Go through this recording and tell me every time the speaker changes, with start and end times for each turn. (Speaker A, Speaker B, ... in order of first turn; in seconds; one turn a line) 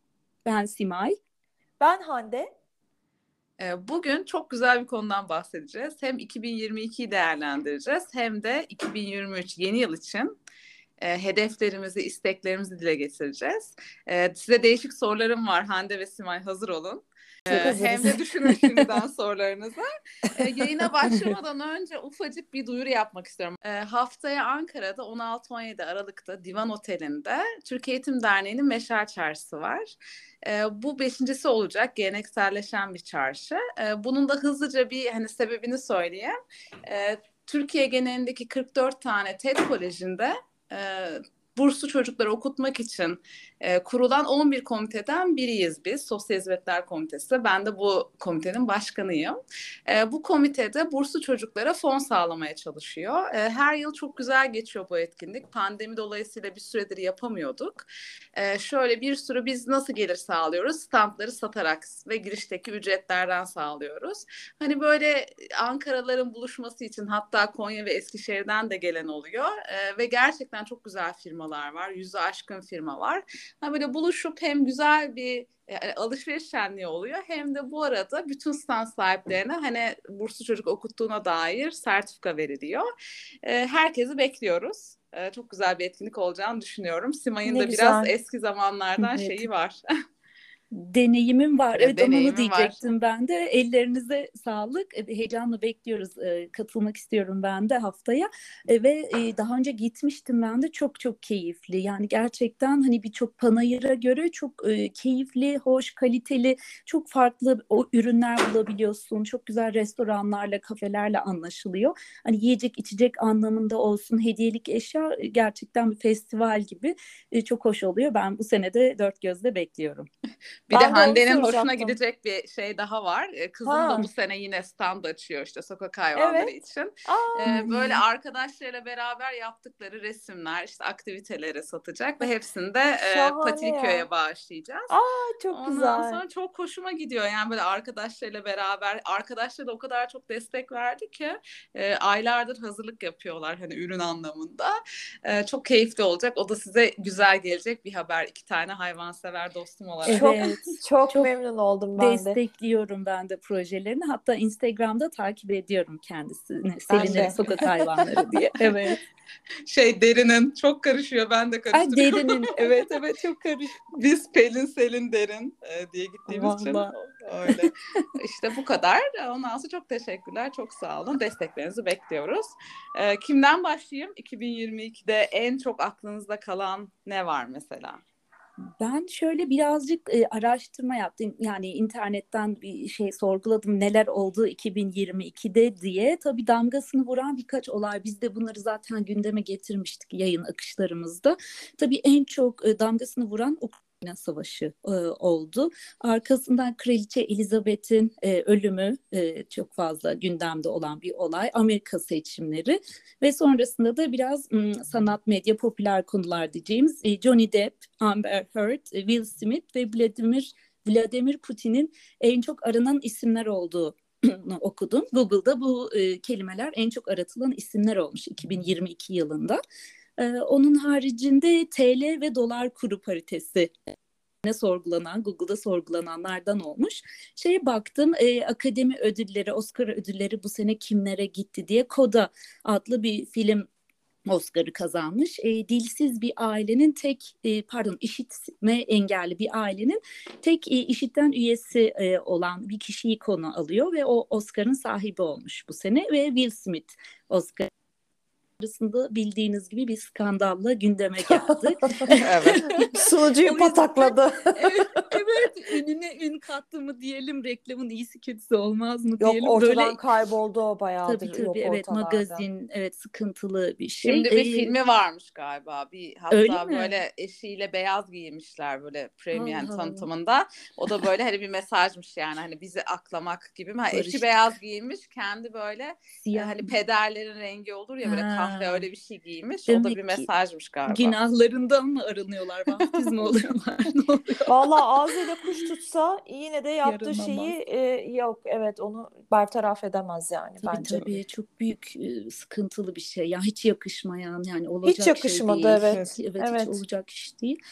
Speaker A: 0.4-1.2
Speaker B: 1.8-2.5
Speaker C: 3.6-10.4
Speaker C: 11.0-29.9
Speaker B: 17.5-19.0
Speaker B: 20.6-21.3
Speaker C: 30.4-36.3
Speaker C: 36.9-82.8
Speaker C: 83.4-89.8
Speaker B: 87.4-88.1
Speaker A: 89.0-89.5
Speaker A: 90.7-120.1
Speaker C: 91.7-92.9
Speaker C: 120.7-134.9
Speaker B: 120.7-122.0
Speaker B: 123.6-124.1
Speaker B: 126.1-128.0
Speaker B: 133.1-134.1
Speaker B: 134.9-136.2
Speaker C: 135.5-150.5
Speaker A: 150.0-151.3
Speaker B: 150.1-152.4
Speaker A: 152.0-159.0
Speaker B: 156.9-157.7
Speaker C: 156.9-157.6
Speaker C: 159.7-162.4
Speaker A: 161.7-163.8
Speaker C: 163.9-178.0
Speaker A: 166.3-166.9
Speaker A: 178.8-219.6
Speaker A: 220.2-223.7
Speaker A: 224.4-233.7
Speaker A: 234.2-247.7
Speaker A: 248.6-260.0
Speaker B: 251.2-252.1
Speaker C: 252.2-252.6
Speaker B: 252.9-255.1
Speaker B: 259.2-262.4
Speaker A: 261.0-264.7
Speaker C: 264.0-281.2
Speaker A: 266.3-267.0
Speaker A: 269.3-270.1
Speaker A: 273.9-274.3
Speaker A: 276.2-276.7
Speaker A: 278.0-278.9
Speaker A: 279.7-280.3
Speaker A: 280.9-284.5
Speaker C: 283.0-283.3
Speaker B: 284.5-291.2
Speaker A: 286.8-287.5
Speaker A: 290.6-297.6
Speaker B: 294.8-296.8
Speaker C: 295.9-296.2